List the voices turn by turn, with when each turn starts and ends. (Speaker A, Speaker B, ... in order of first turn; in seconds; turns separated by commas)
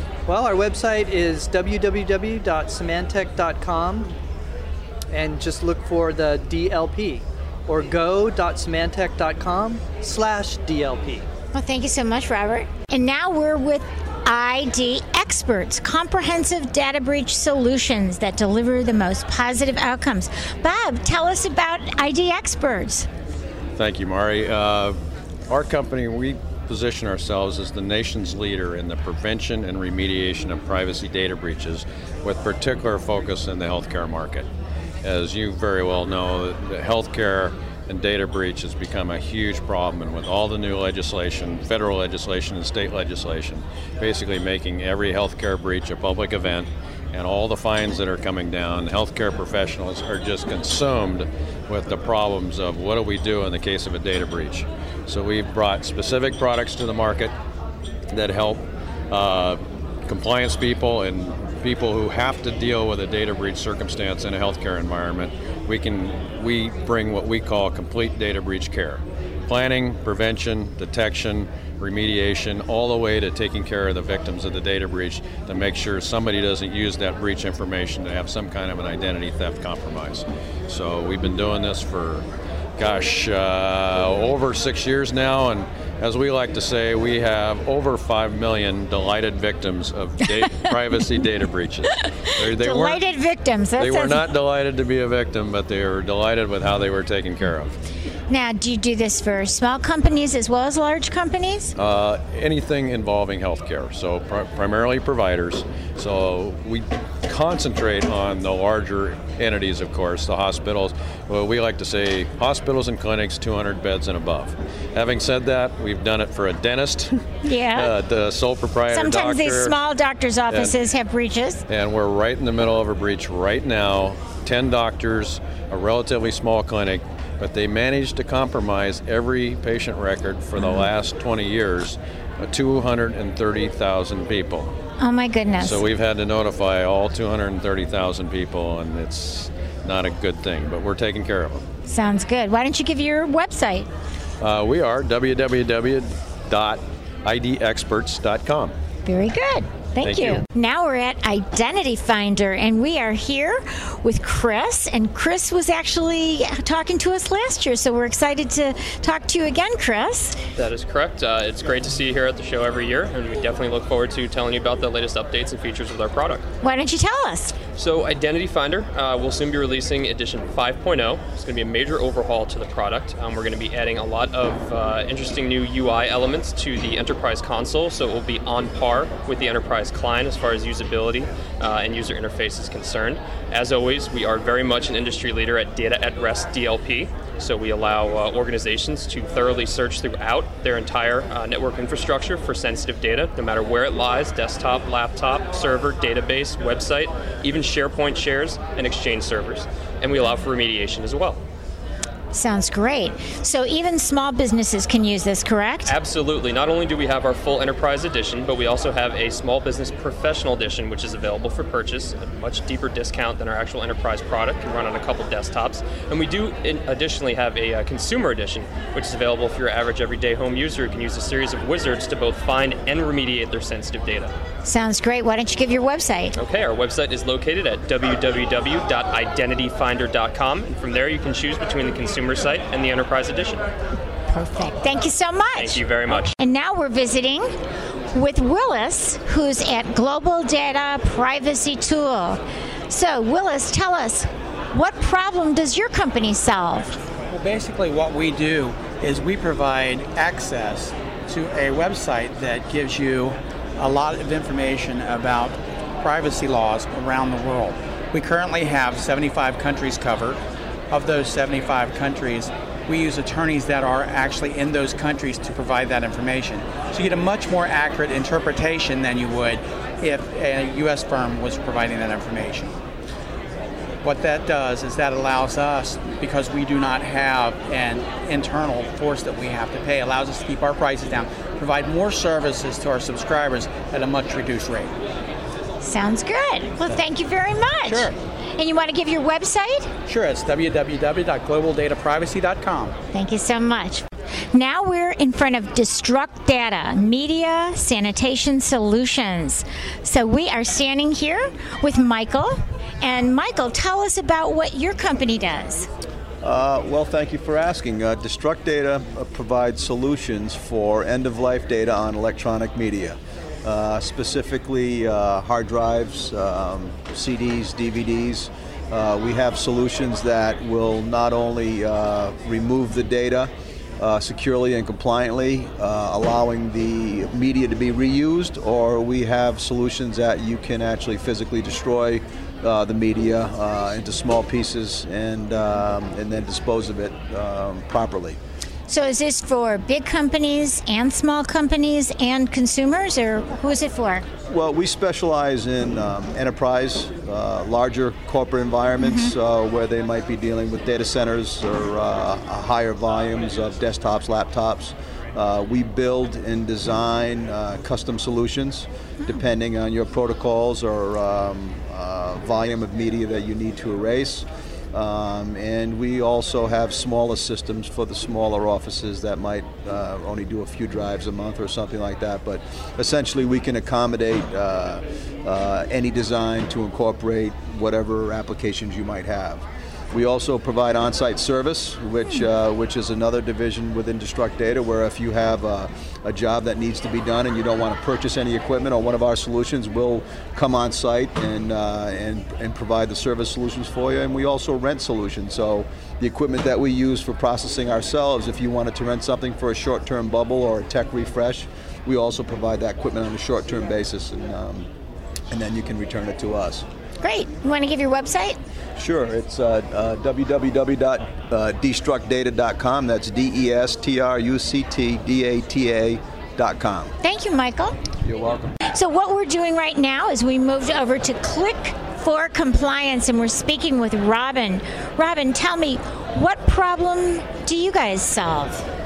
Speaker A: 0.3-4.1, Speaker A: 5.1-11.2, Speaker B: 11.5-23.1, Speaker C: 23.8-25.0, Speaker C: 25.5-34.5, Speaker C: 35.0-57.3, Speaker C: 58.1-82.2, Speaker C: 82.8-91.9, Speaker B: 92.2-94.3, Speaker C: 92.5-93.0, Speaker C: 93.8-97.7, Speaker B: 98.3-101.7, Speaker C: 101.8-117.1, Speaker B: 117.4-118.0, Speaker C: 117.8-119.7, Speaker B: 118.9-121.6, Speaker C: 121.7-134.7, Speaker B: 130.6-130.8, Speaker B: 135.0-135.8, Speaker C: 135.6-141.6, Speaker B: 141.9-143.9, Speaker C: 144.4-148.7, Speaker B: 149.1-160.3, Speaker C: 150.0-150.4, Speaker D: 160.6-166.4, Speaker B: 166.6-167.6, Speaker D: 167.8-201.4, Speaker B: 202.3-205.9, Speaker D: 205.8-224.3, Speaker B: 224.7-226.3, Speaker D: 226.3-233.7, Speaker B: 234.3-235.8, Speaker D: 235.5-236.3, Speaker B: 236.4-237.5, Speaker B: 238.1-246.9, Speaker E: 247.3-260.4, Speaker E: 260.9-272.7, Speaker E: 274.0-284.9, Speaker B: 285.8-289.9, Speaker E: 287.8-288.1, Speaker E: 290.0-292.9, Speaker B: 293.1-305.9, Speaker F: 306.4-338.4, Speaker B: 338.9-344.2, Speaker F: 344.5-404.9, Speaker B: 349.0-349.3, Speaker F: 405.5-406.8, Speaker B: 407.2-408.6, Speaker F: 409.0-417.1, Speaker B: 417.2-417.9, Speaker F: 418.2-418.8, Speaker B: 418.9-428.8